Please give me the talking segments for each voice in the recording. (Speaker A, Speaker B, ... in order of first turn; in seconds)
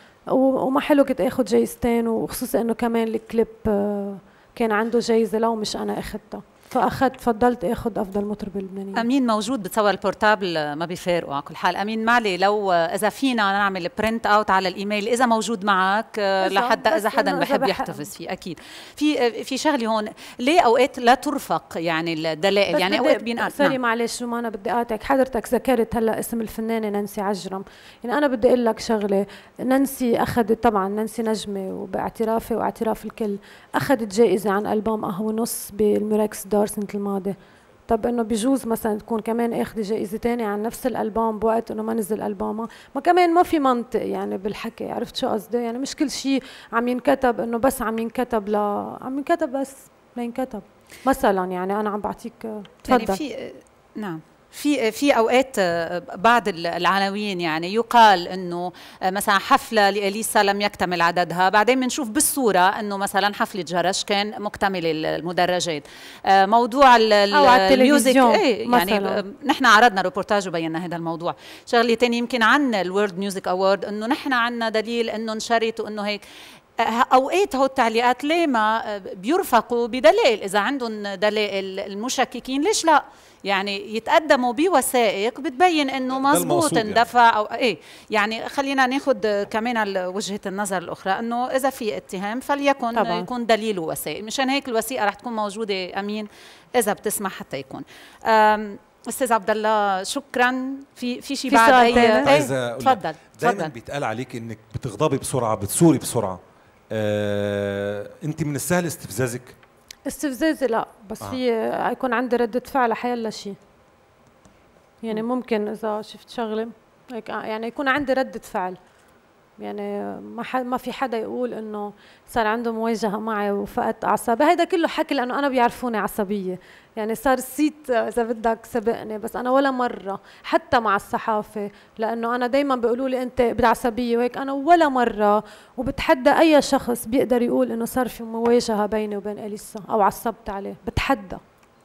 Speaker A: 0.3-9.0, 16.4-18.0, 22.7-37.4, 37.9-53.2, 67.3-69.2, 92.9-93.3, 101.5-102.5, 110.1-113.6, 115.0-118.8, 119.6-141.4
Speaker B: 9.0-23.8, 52.9-65.8, 66.4-76.2, 76.9-96.3, 96.8-103.7
Speaker C: 86.2-87.1, 101.9-109.6